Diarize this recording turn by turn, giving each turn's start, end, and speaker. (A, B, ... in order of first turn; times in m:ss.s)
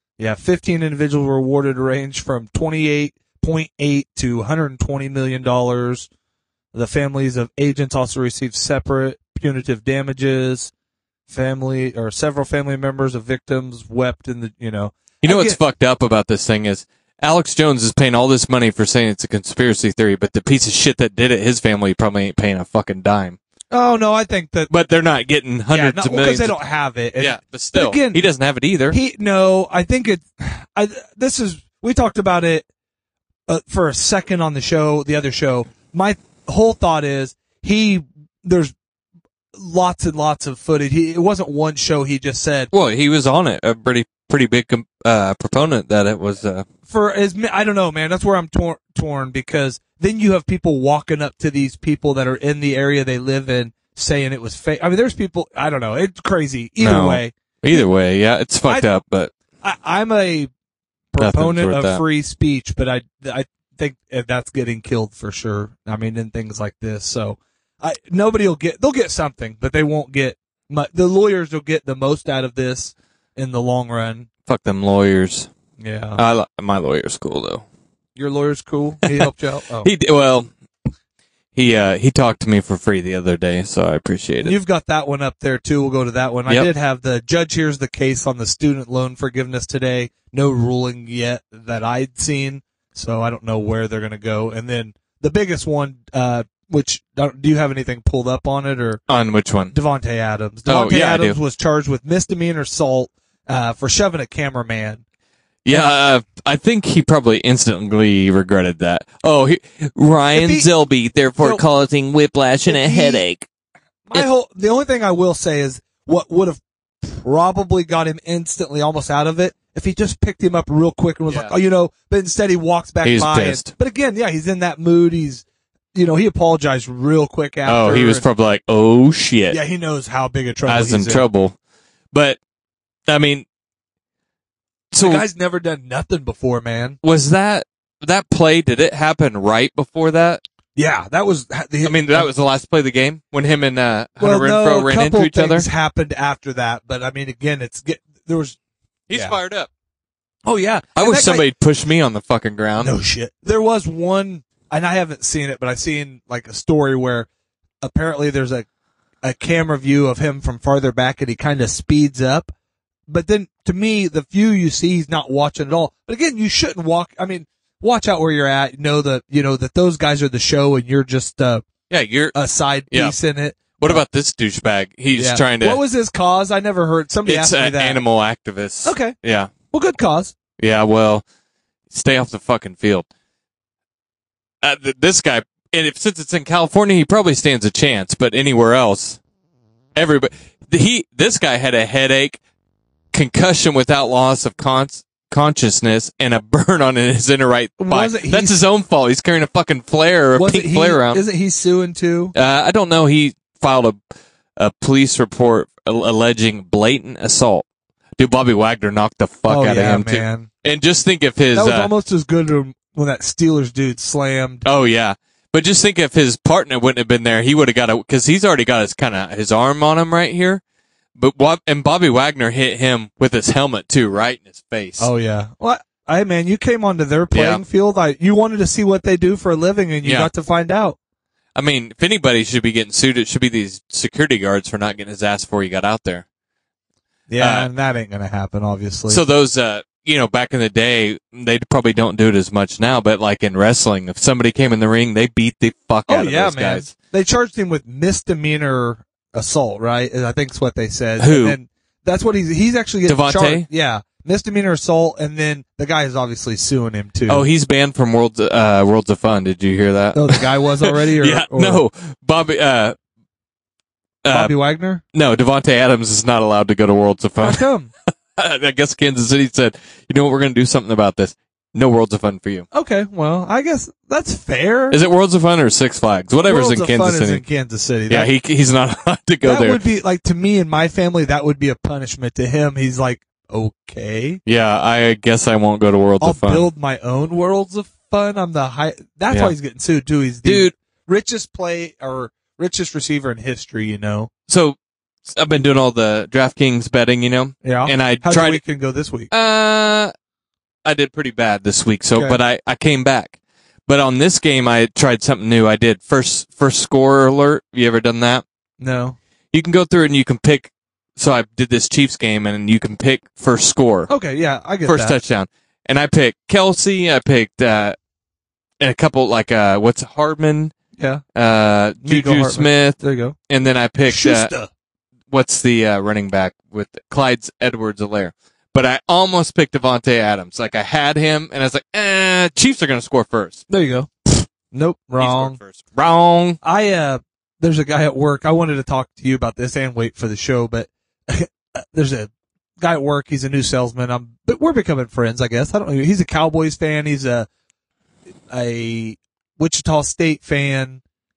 0:00.2-0:06.1 A
0:06.7-0:10.7 A
0:11.3-0:15.6 A
0:15.2-0:23.4 B
0:23.7-0:24.7 A
0:24.7-0:26.6 B
0:25.7-0:28.2 A
0:27.2-0:29.0 B
0:28.9-0:32.7 A
0:33.5-0:38.7 A
0:39.6-0:42.7 A
0:42.7-0:46.6 B
0:46.9-0:57.9 A
0:56.8-0:59.3 B
0:59.6-1:00.5 A
1:01.1-1:14.3 A
1:01.2-1:02.0 B
1:14.5-1:15.5 B
1:15.8-1:16.2 A
1:16.2-1:17.6 B
1:18.2-1:19.9 A
1:19.8-1:20.5 B
1:21.6-1:24.6 B
1:24.4-1:39.0 A
1:39.1-1:39.7 B
1:39.7-1:45.0 A
1:40.7-1:41.4 B
1:45.6-1:53.5 B
1:45.7-1:46.0 A
1:50.3-1:50.7 A
1:52.7-1:53.2 A
1:54.1-2:08.2 A
2:03.0-2:03.7 B
2:07.7-2:09.6 B
2:09.5-2:11.2 A
2:10.7-2:11.6 B
2:12.1-2:12.4 B
2:13.1-2:13.4 B
2:14.9-2:15.2 B
2:15.0-2:17.0 A
2:17.0-2:20.4 B
2:20.8-2:22.3 A
2:21.8-2:25.7 B
2:24.2-2:28.6 A
2:29.1-2:29.7 B
2:30.4-2:31.5 A
2:31.0-2:32.9 B
2:32.8-2:37.3 A
2:37.8-2:38.7 A
2:39.2-2:42.5 A
2:43.1-2:51.6 A
2:51.9-2:52.4 B
2:52.3-2:54.0 A
2:52.9-2:53.2 B
2:53.8-2:55.8 B
2:55.2-2:58.0 A
2:57.3-2:59.5 B
2:58.8-2:59.2 A
2:59.7-3:00.4 A
3:00.6-3:01.2 B
3:01.9-3:03.1 B
3:04.6-3:09.2 B
3:10.0-3:12.4 B
3:13.1-3:21.2 B
3:17.8-3:18.6 A
3:20.4-3:22.4 A
3:22.4-3:24.0 B
3:24.6-3:27.7 B
3:28.2-3:31.9 B
3:29.5-3:30.5 A
3:31.5-3:34.7 A
3:34.6-3:40.6 B
3:41.2-3:45.1 B
3:45.0-3:51.0 A
3:47.3-3:47.6 B
3:50.0-3:50.3 B
3:51.6-3:56.2 B
3:57.3-3:59.2 A
3:57.4-3:57.7 B
3:59.1-4:06.9 B
4:06.1-4:17.4 A
4:11.2-4:11.6 B
4:13.1-4:13.7 B
4:17.3-4:23.0 B
4:20.1-4:21.8 A
4:24.2-4:24.5 B
4:24.3-4:25.0 A
4:25.1-4:27.6 B
4:27.4-4:27.9 A
4:28.4-4:32.7 B
4:32.7-4:35.0 A
4:34.9-4:37.4 B
4:36.4-4:38.3 A
4:38.1-4:39.8 B
4:39.4-4:44.4 A
4:44.5-4:46.7 B
4:46.2-4:54.3 A
4:50.4-4:50.7 B
4:54.5-4:54.8 B
4:55.3-4:58.6 B
4:57.6-4:59.3 A
4:59.3-5:00.1 B
5:00.8-5:03.4 B
5:03.9-5:08.4 B
5:08.8-5:09.2 A
5:09.5-5:14.1 B
5:14.1-5:15.2 A
5:14.9-5:18.0 B
5:18.8-5:20.7 B
5:21.4-5:24.5 B
5:22.0-5:23.4 A
5:24.1-5:24.7 A
5:25.3-5:33.6 B
5:33.7-5:35.6 A
5:35.2-5:36.6 B
5:36.6-5:47.5 A
5:48.5-5:51.0 A